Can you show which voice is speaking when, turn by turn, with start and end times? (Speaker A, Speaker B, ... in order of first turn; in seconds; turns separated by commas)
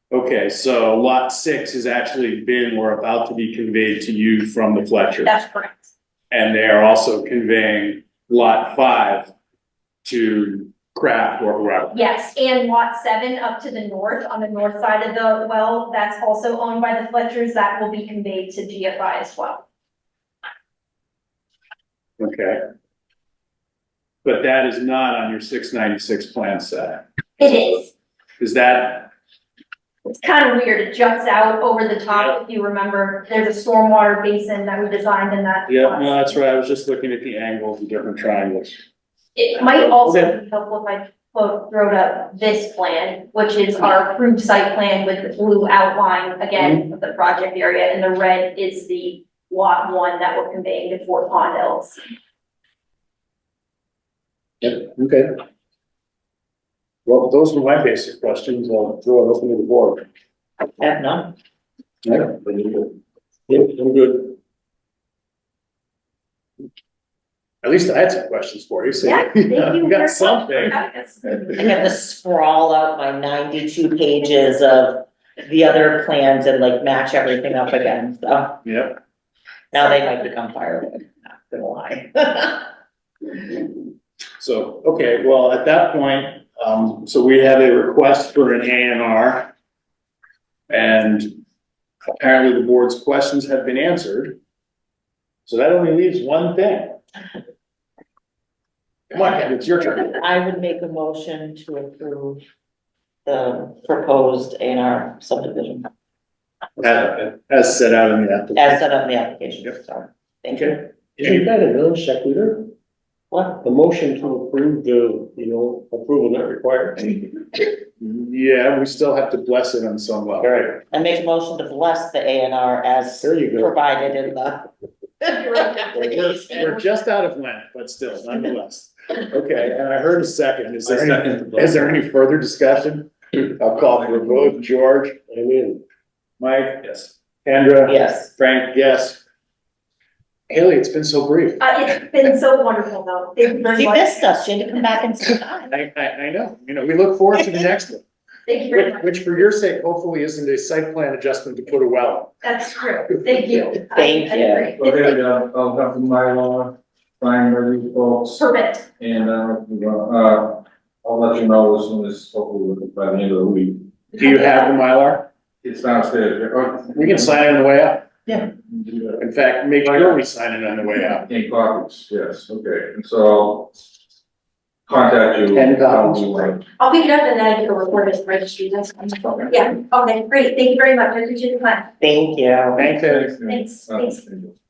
Speaker A: 0.1-5.3, Speaker B: 5.2-5.9, Speaker A: 6.3-9.3, Speaker A: 10.0-12.0, Speaker B: 11.9-19.6, Speaker A: 22.2-22.6, Speaker A: 24.2-27.5, Speaker B: 27.4-27.9, Speaker A: 28.4-29.1, Speaker B: 30.1-36.3, Speaker A: 35.7-38.8, Speaker B: 39.4-52.0, Speaker A: 39.6-40.3, Speaker A: 46.6-46.8, Speaker A: 54.6-55.4, Speaker A: 57.0-60.1, Speaker C: 60.8-61.3, Speaker A: 62.0-62.4, Speaker D: 63.5-64.4, Speaker A: 67.6-70.8, Speaker B: 69.0-71.5, Speaker C: 71.5-78.6, Speaker A: 78.7-79.0, Speaker C: 79.7-82.7, Speaker A: 84.4-89.5, Speaker A: 90.7-91.3, Speaker A: 92.2-94.4, Speaker A: 95.5-97.0, Speaker A: 99.1-100.2, Speaker C: 99.8-102.4, Speaker C: 103.3-105.9, Speaker A: 106.8-108.8, Speaker C: 108.5-110.8, Speaker A: 110.5-111.4, Speaker D: 110.7-112.7, Speaker C: 113.3-113.6, Speaker D: 113.6-117.3, Speaker A: 118.0-120.5, Speaker C: 120.4-125.7, Speaker D: 123.2-123.8, Speaker B: 125.3-126.8, Speaker A: 125.9-135.2, Speaker D: 130.8-131.8, Speaker D: 135.3-135.8, Speaker A: 136.4-139.2, Speaker C: 137.9-138.3, Speaker A: 140.5-141.7, Speaker B: 141.6-144.3, Speaker C: 143.7-145.7, Speaker A: 145.7-148.0, Speaker B: 148.5-149.1, Speaker A: 148.7-152.4, Speaker B: 152.4-154.9, Speaker C: 153.9-154.8, Speaker E: 154.8-158.4, Speaker B: 158.4-158.9, Speaker E: 159.0-163.9, Speaker A: 164.2-165.3, Speaker E: 165.6-167.4, Speaker A: 166.9-168.1, Speaker E: 168.7-169.2, Speaker A: 169.2-171.2, Speaker E: 169.8-170.2, Speaker E: 171.2-173.7, Speaker E: 174.9-176.6, Speaker A: 175.5-176.6, Speaker B: 176.8-181.9, Speaker C: 182.0-182.9, Speaker A: 182.8-183.4, Speaker E: 182.9-184.6, Speaker B: 183.5-184.2